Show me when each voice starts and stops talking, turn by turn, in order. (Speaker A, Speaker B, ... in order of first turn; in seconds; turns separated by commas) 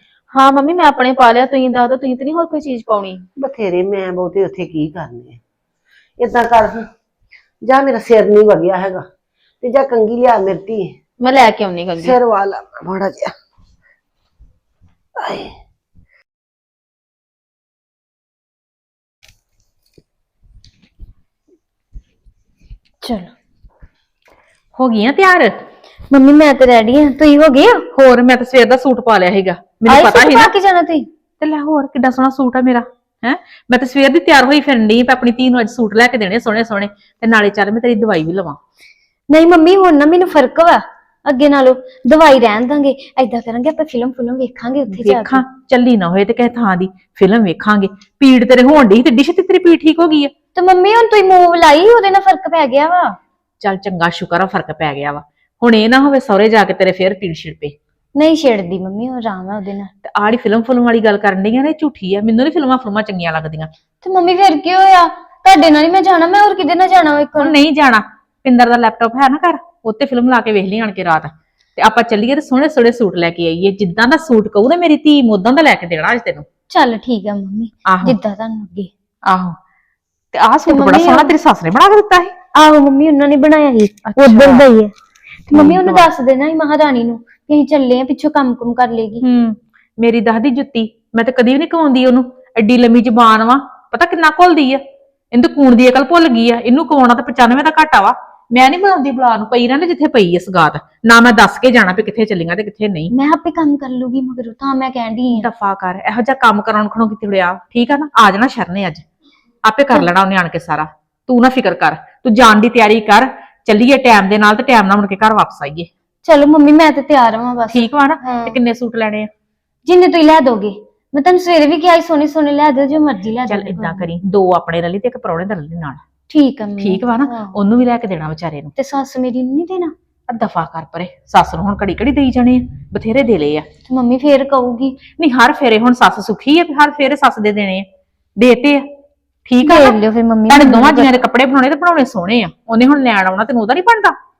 Speaker A: 0.3-3.2, Speaker B: 3.4-5.4, Speaker B: 6.2-6.9, Speaker B: 7.7-9.1, Speaker B: 9.6-10.9, Speaker A: 11.2-12.2, Speaker B: 12.0-13.3, Speaker B: 15.2-15.5, Speaker C: 23.0-23.3, Speaker D: 24.8-25.6, Speaker C: 26.1-27.9, Speaker D: 27.9-30.5, Speaker C: 29.9-31.1, Speaker D: 31.4-38.6, Speaker C: 39.3-45.4, Speaker D: 44.9-50.3, Speaker C: 50.5-53.2, Speaker D: 53.6-57.8, Speaker C: 58.1-59.9, Speaker D: 60.0-63.7, Speaker C: 64.0-67.6, Speaker D: 67.4-76.5, Speaker C: 76.7-78.9, Speaker D: 77.9-78.2, Speaker D: 79.3-79.6, Speaker D: 80.3-82.3, Speaker C: 80.7-81.3, Speaker C: 82.5-84.9, Speaker D: 84.1-84.7, Speaker C: 85.5-89.2, Speaker D: 85.5-86.1, Speaker D: 89.2-94.8, Speaker D: 95.3-103.1, Speaker C: 103.1-105.5, Speaker D: 105.3-109.0, Speaker D: 109.7-115.9, Speaker C: 116.2-118.6, Speaker D: 117.7-119.3, Speaker C: 119.8-124.1, Speaker D: 123.4-126.0, Speaker C: 126.3-127.5, Speaker D: 126.8-128.7, Speaker C: 128.8-129.9, Speaker D: 130.3-133.7, Speaker C: 133.9-135.0, Speaker D: 135.2-137.9, Speaker D: 138.4-138.8, Speaker D: 139.5-144.2, Speaker C: 139.6-141.2